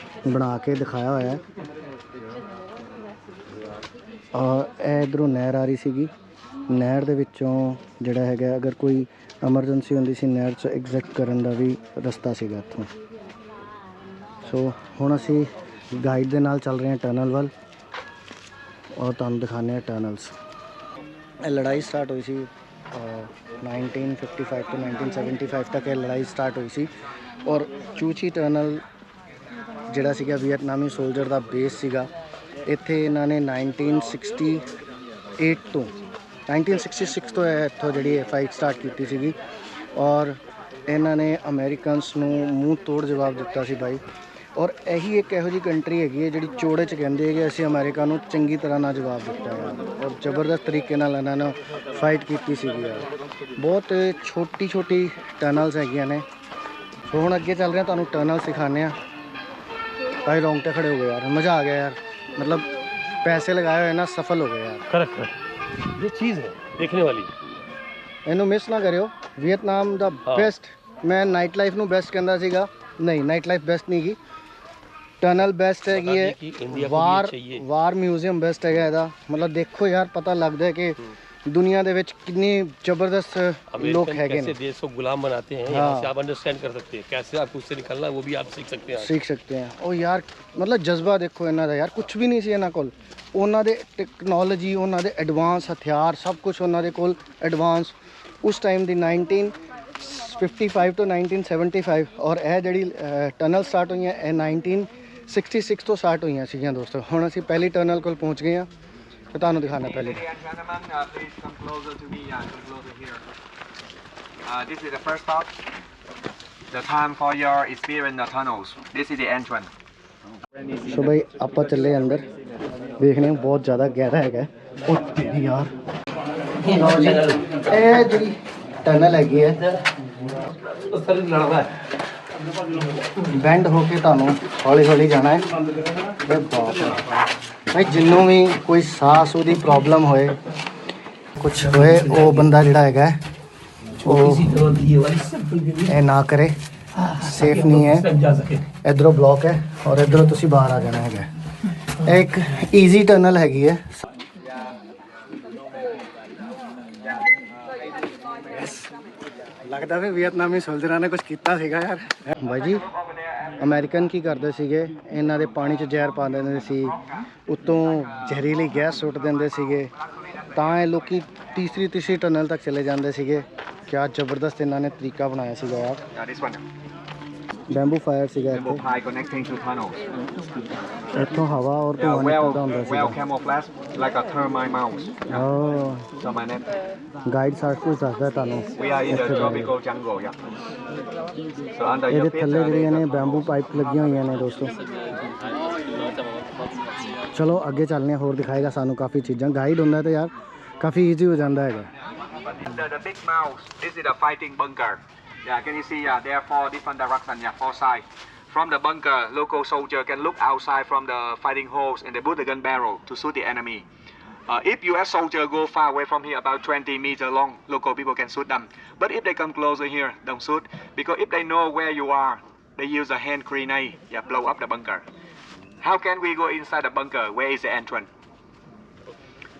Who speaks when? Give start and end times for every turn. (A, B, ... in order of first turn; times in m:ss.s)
0:00.2-0:01.4 A
0:04.3-0:06.1 A
0:06.7-0:12.9 A
0:14.4-0:17.5 A
0:19.0-0:20.3 A
0:21.4-0:26.9 A
0:27.4-0:28.8 A
0:29.9-0:32.1 A
0:32.6-0:34.6 A
0:35.4-0:35.9 A
0:36.5-0:39.4 A
0:39.9-0:44.0 A
0:44.5-0:56.2 A
0:57.1-0:59.0 A
1:00.2-1:02.7 A
1:03.2-1:04.9 A
1:04.9-1:07.3 B
1:08.2-1:14.2 A
1:10.2-1:10.5 B
1:15.2-1:24.5 A
1:15.9-1:17.6 B
1:23.7-1:29.1 B
1:25.7-1:26.1 A
1:29.0-1:48.7 A
1:49.3-1:50.2 A
1:49.7-1:53.2 C
1:54.4-1:55.5 C
1:56.7-1:59.7 C
2:00.9-2:02.2 A
2:03.0-2:05.7 A
2:06.6-2:07.5 B
2:06.6-2:09.6 A
2:09.7-2:11.8 B
2:13.2-2:15.5 A
2:16.2-2:17.1 A
2:17.7-2:20.4 A
2:21.4-2:23.2 A
2:21.8-2:22.4 B
2:24.0-2:26.0 B
2:24.0-2:24.4 A
2:25.9-2:26.6 A
2:27.0-2:28.7 B
2:27.1-2:28.1 A
2:28.8-2:31.3 A
2:31.9-2:34.0 A
2:38.4-2:38.9 A
2:39.6-2:42.9 A
2:42.7-2:43.5 C
2:43.6-2:49.9 A
2:50.4-2:51.0 C
2:50.5-2:56.0 A
2:56.1-2:56.6 C
2:57.7-2:58.8 A
2:58.6-3:00.0 C
3:01.1-3:03.2 A
3:02.0-3:05.4 C
3:05.3-3:06.1 A
3:06.2-3:06.7 C
3:07.2-3:09.7 A
3:08.8-3:10.4 C
3:11.7-3:14.4 C
3:12.1-3:14.7 A
3:15.8-3:16.4 B
3:17.3-3:21.9 A
3:22.4-3:33.8 C
3:34.5-3:45.0 C
3:45.8-3:48.1 C